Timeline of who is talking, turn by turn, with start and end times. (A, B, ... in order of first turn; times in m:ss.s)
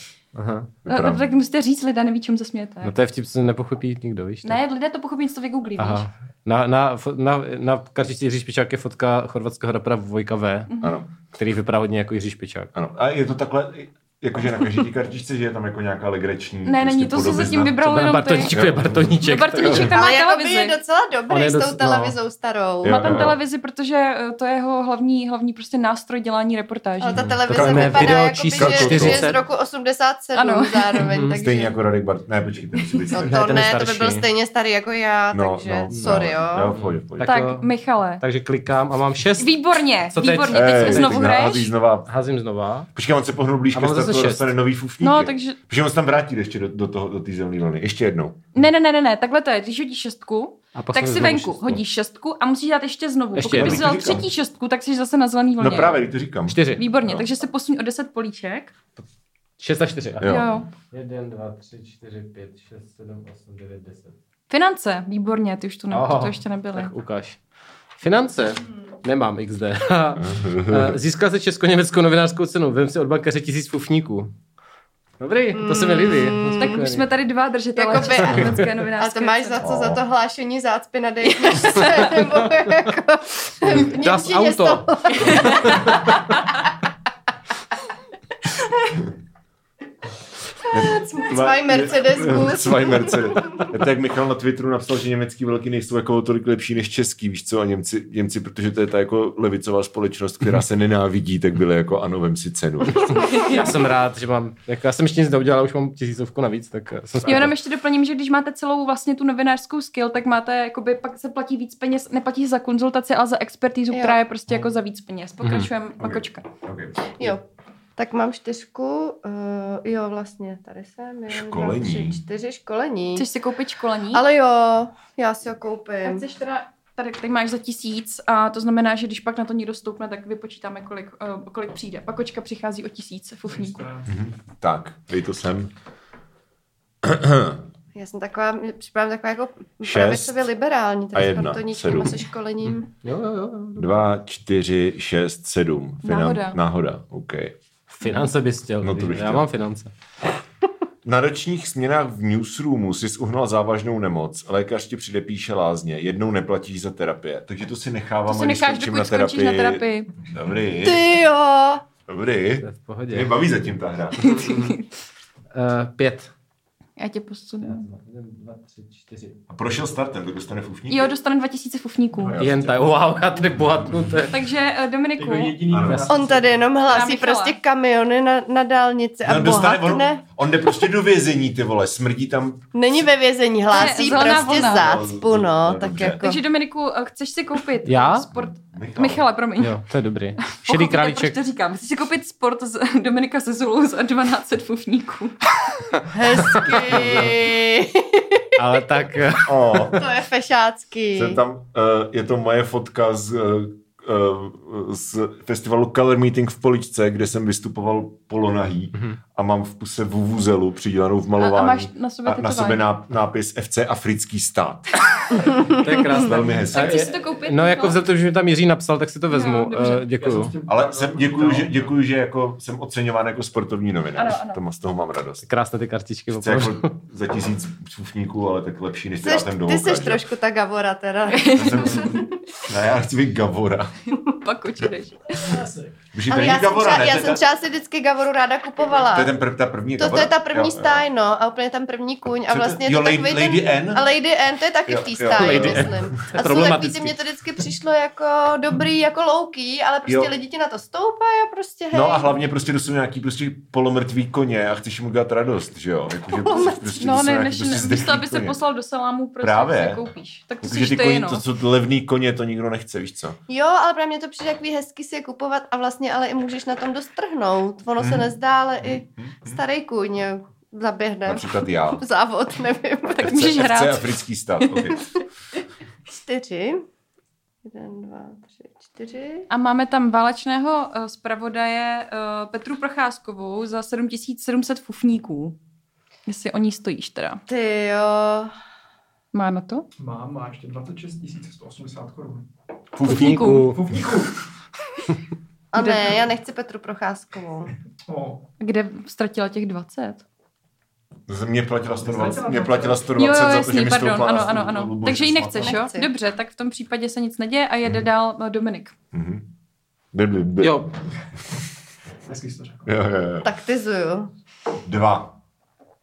0:00.4-0:00.7 A
0:00.8-0:01.2 B
0:00.9-0:02.9 C
0:02.8-0:04.6 A
0:04.4-0:06.1 C
0:05.8-0:10.7 A
0:10.7-0:11.0 C
0:10.8-0:11.1 B
0:11.4-0:12.7 A
0:12.7-0:17.8 B
0:16.6-0:18.6 C
0:17.8-0:20.0 A
0:18.5-0:20.0 B
0:19.2-0:20.8 C
0:19.9-0:23.2 D
0:21.3-0:22.2 A
0:22.8-0:23.4 B
0:22.8-0:27.2 C
0:27.0-0:31.8 D
0:27.1-0:29.4 B
0:27.4-0:29.4 A
0:30.4-0:31.1 C
0:31.0-0:31.4 A
0:31.4-0:33.6 B
0:33.1-0:36.7 D
0:33.2-0:34.3 A
0:35.3-0:37.3 B
0:35.9-0:36.2 A
0:36.7-0:37.7 A
0:37.2-0:38.2 C
0:38.2-0:39.5 A
0:39.4-0:41.7 C
0:40.1-0:41.4 A
0:40.5-0:42.1 B
0:42.1-0:42.9 A
0:42.9-0:48.4 B
0:43.7-0:44.5 A
0:45.0-0:45.6 C
0:48.5-0:56.0 C
0:50.8-0:51.8 A
0:53.4-0:54.2 A
0:53.5-0:54.3 B
0:55.6-0:57.3 B
0:56.5-0:56.8 A
0:56.8-0:58.7 C
0:59.6-1:04.2 A
1:00.2-1:00.7 B
1:00.3-1:00.7 C
1:04.5-1:06.9 C
1:05.9-1:07.4 A
1:08.0-1:14.3 A
1:10.2-1:11.0 B
1:15.2-1:17.1 A
1:15.5-1:16.9 D
1:16.6-1:19.7 C
1:17.8-1:26.1 D
1:18.2-1:18.7 A
1:19.6-1:20.0 B
1:21.2-1:22.1 C
1:21.8-1:22.5 A
1:23.7-1:26.3 A
1:25.3-1:25.8 C
1:30.7-1:33.7 D
1:30.7-1:43.3 B
1:43.3-1:47.5 A
1:47.2-1:56.5 C
1:53.9-1:54.2 D
1:55.4-1:55.7 A
1:56.0-1:57.4 B
1:58.0-2:03.3 D
2:01.3-2:02.2 B
2:03.2-2:04.2 C
2:04.1-2:06.2 D
2:06.0-2:13.8 C
2:13.5-2:14.1 E
2:14.1-2:15.7 B
2:17.0-2:17.6 B
2:18.0-2:22.9 D
2:19.8-2:20.4 B
2:21.1-2:22.2 B
2:22.7-2:24.0 A
2:23.8-2:27.6 B
2:26.0-2:26.6 C
2:27.9-2:29.9 A
2:28.0-2:28.3 C
2:28.8-2:29.5 B
2:31.0-2:41.2 B
2:38.3-2:40.1 C
2:40.8-2:41.8 D
2:42.1-2:44.4 B
2:42.6-2:43.3 A
2:44.2-2:44.8 A
2:44.2-2:44.8 C
2:45.5-2:46.3 A
2:47.0-2:47.8 C
2:47.6-2:49.4 A
2:49.5-2:51.1 B
2:50.9-2:52.4 C
2:52.3-2:52.9 B
2:52.4-2:54.4 A
2:53.6-2:54.2 B
2:54.3-2:55.6 C
2:55.2-2:56.7 E
2:55.7-2:56.2 B
2:55.8-2:56.1 A
2:56.1-3:00.2 D
2:56.9-2:57.6 C
2:59.2-3:02.7 B
3:02.7-3:06.4 D
3:03.7-3:04.9 C
3:04.0-3:06.2 B
3:06.2-3:09.8 C
3:07.8-3:08.3 A
3:08.3-3:09.2 B
3:09.6-3:11.4 A
3:10.4-3:15.4 C
3:16.1-3:18.4 D
3:16.4-3:17.4 A
3:18.6-3:19.8 A
3:19.4-3:20.0 B
3:19.9-3:21.4 D
3:21.1-3:35.0 B
3:31.4-3:32.9 C
3:35.8-3:40.5 A
3:36.1-3:37.1 B
3:36.6-3:38.0 C
3:39.3-3:40.1 C
3:40.2-3:41.9 E
3:40.7-3:45.5 B
3:44.1-3:44.6 C
3:45.4-3:46.9 A
3:46.3-3:50.2 B
3:49.2-3:52.3 D
3:51.3-3:52.2 C
3:51.5-3:54.0 B
3:54.1-3:55.6 C
3:56.1-3:57.4 B
3:56.3-3:59.3 D
3:59.1-4:01.0 B
4:00.0-4:12.3 D
4:02.5-4:04.1 B
4:04.9-4:06.1 B
4:05.4-4:07.2 A
4:10.1-4:10.3 B
4:11.9-4:18.6 B
4:16.3-4:17.1 D
4:17.0-4:21.4 C
4:19.4-4:20.0 B
4:20.6-4:23.4 B
4:23.5-4:33.5 D
4:28.0-4:28.3 B
4:28.8-4:29.6 B
4:31.3-4:32.0 B
4:33.2-4:34.1 C
4:33.2-4:35.2 B
4:36.1-4:36.8 D
4:37.6-4:39.5 D
4:39.5-4:45.6 C
4:46.3-4:47.4 C
4:47.5-4:48.5 D
4:49.3-4:49.9 C
4:50.0-4:52.5 E
4:53.0-4:53.3 B
4:53.0-4:53.7 C
4:53.0-4:53.9 A
4:53.6-4:54.4 E
4:55.7-4:57.7 D
4:55.8-4:56.2 C
4:58.1-4:58.4 E
4:58.6-5:00.2 C
5:01.3-5:05.8 B
5:02.0-5:03.1 E
5:03.2-5:08.9 C
5:05.6-5:06.1 D
5:09.1-5:09.5 B
5:10.1-5:10.9 B
5:10.6-5:10.9 A
5:12.3-5:12.9 E
5:12.9-5:13.5 B
5:13.4-5:14.3 D
5:14.8-5:15.4 B